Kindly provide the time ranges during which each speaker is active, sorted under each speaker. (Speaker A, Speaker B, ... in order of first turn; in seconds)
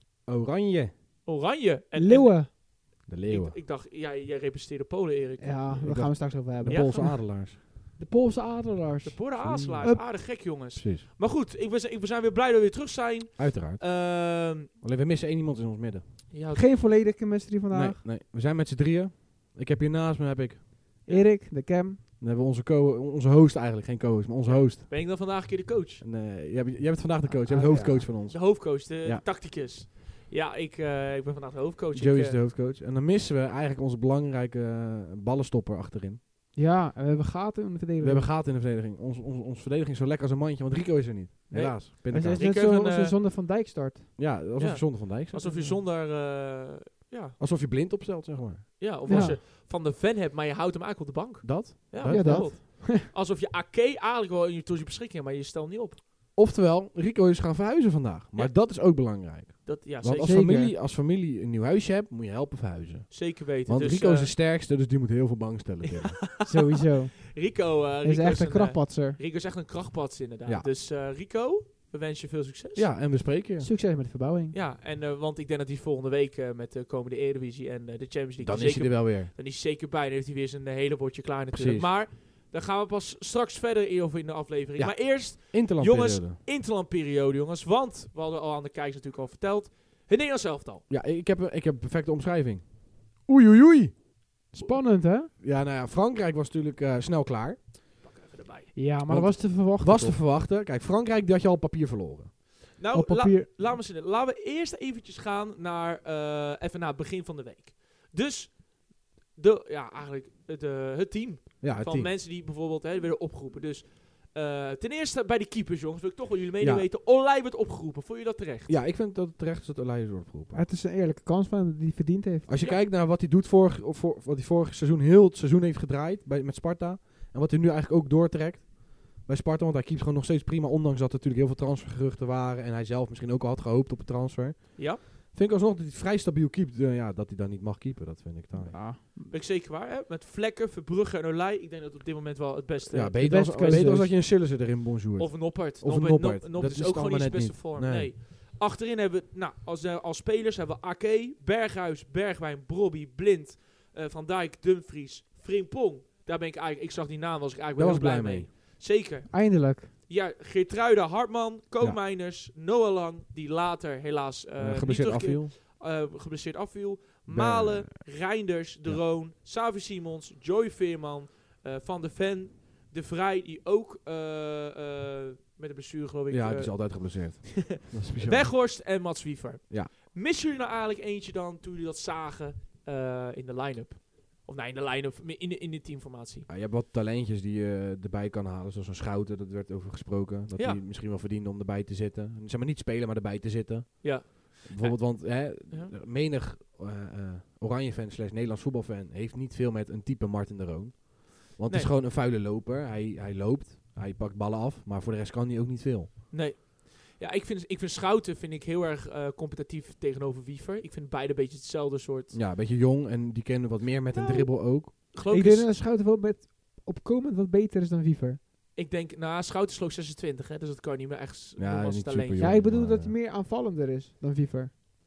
Speaker A: 0.2-0.9, 3.0-3.6, 5.7-7.6, 9.6-11.0, 13.4-13.8, 14.8-16.3, 17.7-20.7, 22.2-25.1, 26.0-29.2, 31.9-36.2, 38.0-42.5, 44.1-45.5, 47.4-49.2, 51.4-52.6, 56.3-66.2, 72.7-73.7, 78.4-79.3, 81.5-82.0, 84.8-86.4, 90.9-94.0, 95.3-97.7, 99.0-102.4, 111.6-112.1, 116.6-116.9, 118.7-120.7, 122.5-138.8, 142.9-148.1, 157.7-158.5, 164.6-165.5, 167.3-169.0, 176.3-178.7, 186.5-206.2, 212.3-215.0, 221.6-223.2
Speaker B: 1.2-2.6, 3.3-5.9, 6.6-7.3, 9.0-14.7, 16.3-16.7, 24.4-26.0, 28.2-32.4, 41.5-43.2, 44.6-47.4, 48.8-56.0, 58.3-59.1, 59.6-60.5, 63.1-64.3, 66.4-72.9, 74.5-90.8, 98.0-98.8, 102.8-118.8, 139.3-143.8, 145.2-186.5, 190.5-190.8, 194.0-195.9, 201.7-201.9, 206.3-212.4, 214.1-214.4, 215.0-215.7, 218.7-222.5
Speaker C: 1.9-2.5, 5.4-10.0, 16.5-18.0, 21.1-22.0, 27.3-28.1, 36.5-38.3, 42.1-44.1, 45.4-45.8, 49.0-49.4, 52.0-53.0, 60.2-60.7, 66.4-67.5, 68.0-69.2, 73.6-74.5, 94.5-95.3, 98.7-100.2, 102.9-103.5, 120.5-122.5, 138.5-139.3, 143.2-144.1, 159.3-159.9, 214.2-214.5, 215.0-218.4, 222.3-224.8